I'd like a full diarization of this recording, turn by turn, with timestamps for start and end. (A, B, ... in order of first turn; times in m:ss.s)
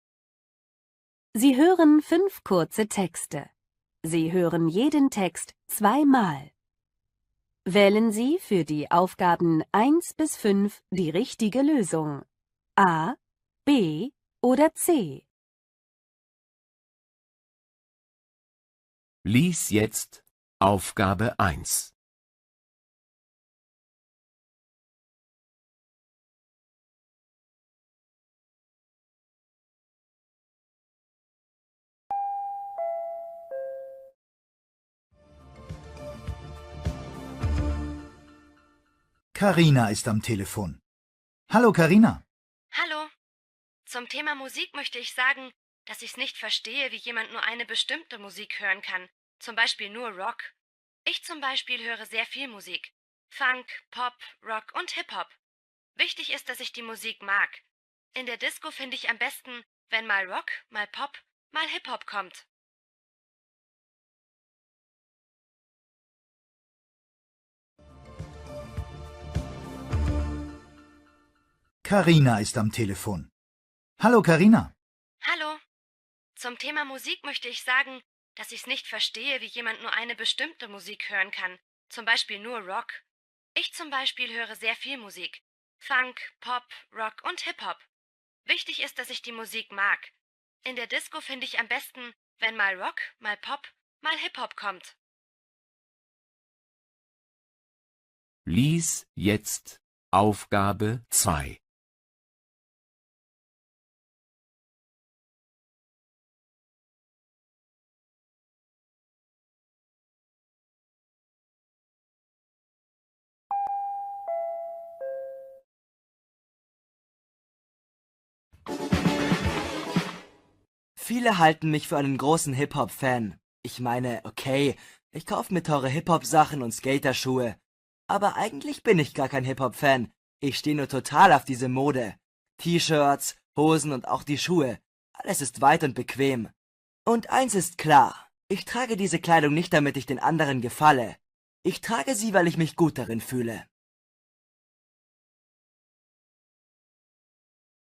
0:01.4-0:03.5 A
0:04.0-0:06.5 A
0:07.7-0:12.2 A
0:12.8-0:15.3 A
0:19.2-0:21.9 B
0:39.3-0:40.8 C
0:41.5-0:42.2 C
0:42.7-0:43.1 D
0:43.9-0:50.5 D
0:51.1-0:55.4 D
0:56.0-0:57.6 D
0:58.2-1:02.5 D
1:11.8-1:13.3 C
1:14.0-1:14.7 C
1:15.2-1:15.6 D
1:16.4-1:23.0 D
1:23.6-1:27.9 D
1:28.5-1:35.0 D
1:38.5-1:41.6 B
2:01.0-2:16.5 E
2:17.1-2:23.7 E